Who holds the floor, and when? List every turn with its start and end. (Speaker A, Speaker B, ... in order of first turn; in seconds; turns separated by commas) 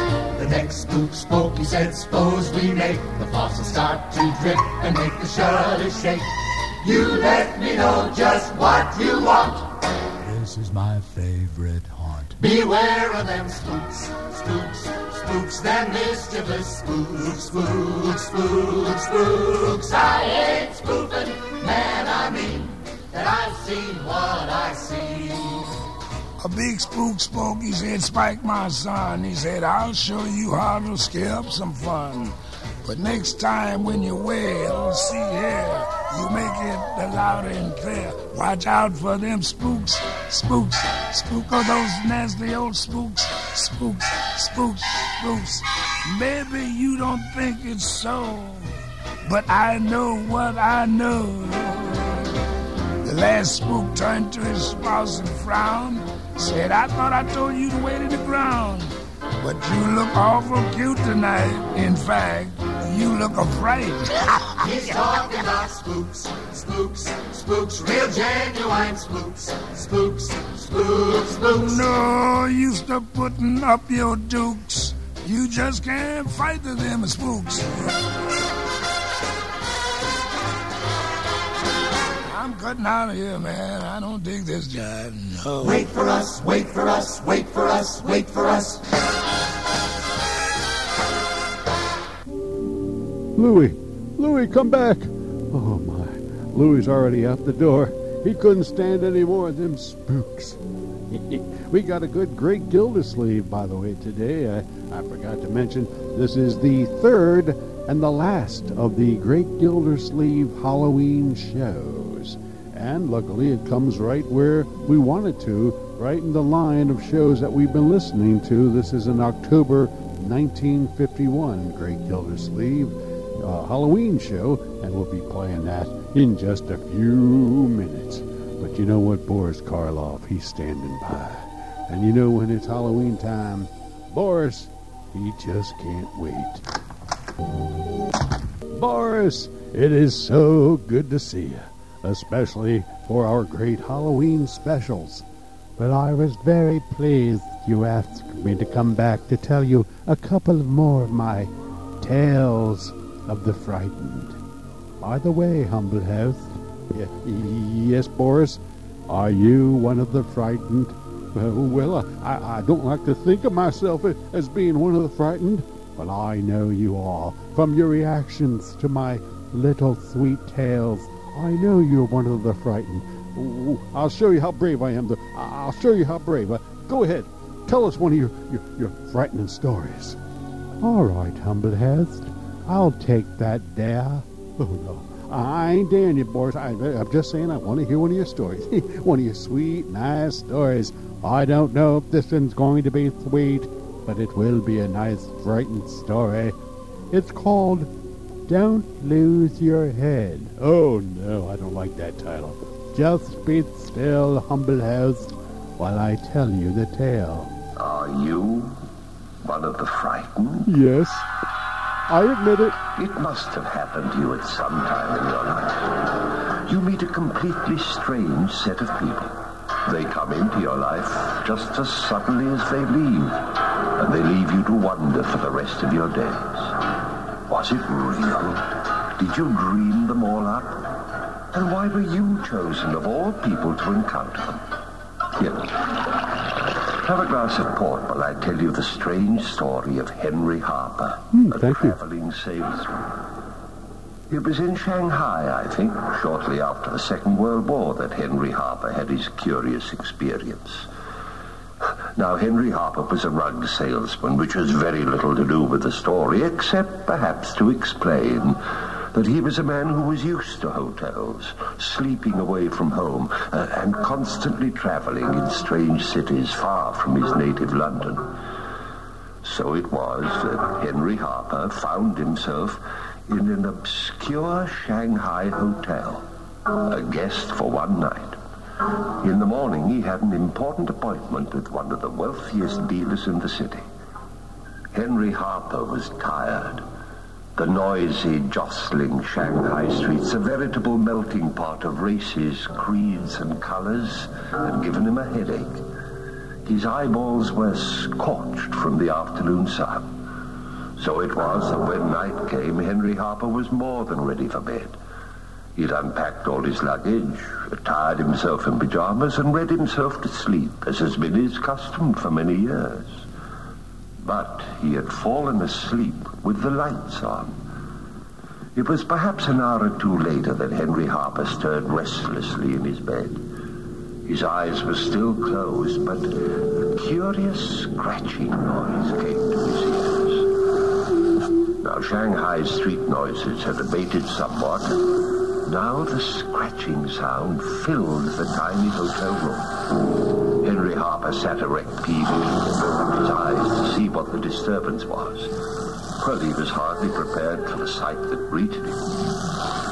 Speaker A: 0.4-6.3, Speaker A: 6.8-9.7, Speaker B: 10.2-12.3, Speaker A: 12.4-25.6, Speaker C: 26.4-48.8, Speaker C: 49.3-52.3, Speaker C: 53.0-64.5, Speaker A: 64.6-71.8, Speaker C: 71.5-78.0, Speaker C: 82.3-85.9, Speaker A: 85.6-88.8, Speaker D: 93.4-136.6, Speaker D: 138.7-145.2, Speaker D: 145.8-154.4, Speaker D: 155.0-180.2, Speaker D: 180.8-196.6, Speaker D: 197.1-197.9, Speaker D: 198.5-207.5, Speaker E: 207.8-208.8, Speaker E: 209.4-210.7, Speaker D: 210.7-211.3, Speaker D: 212.1-212.8, Speaker E: 212.9-226.8, Speaker E: 227.5-234.7, Speaker E: 235.4-243.2, Speaker D: 241.3-242.0, Speaker E: 244.3-250.9, Speaker E: 252.2-258.6, Speaker E: 259.1-268.4, Speaker E: 269.4-276.3, Speaker E: 276.9-278.4, Speaker E: 279.2-283.9, Speaker E: 284.9-286.9, Speaker E: 287.6-295.9, Speaker E: 296.6-300.1, Speaker E: 301.0-305.0, Speaker E: 305.8-313.3, Speaker E: 314.2-317.6, Speaker E: 318.8-323.4, Speaker E: 324.2-330.5, Speaker E: 331.8-335.1, Speaker E: 335.6-339.8, Speaker E: 340.6-345.6, Speaker E: 346.2-349.2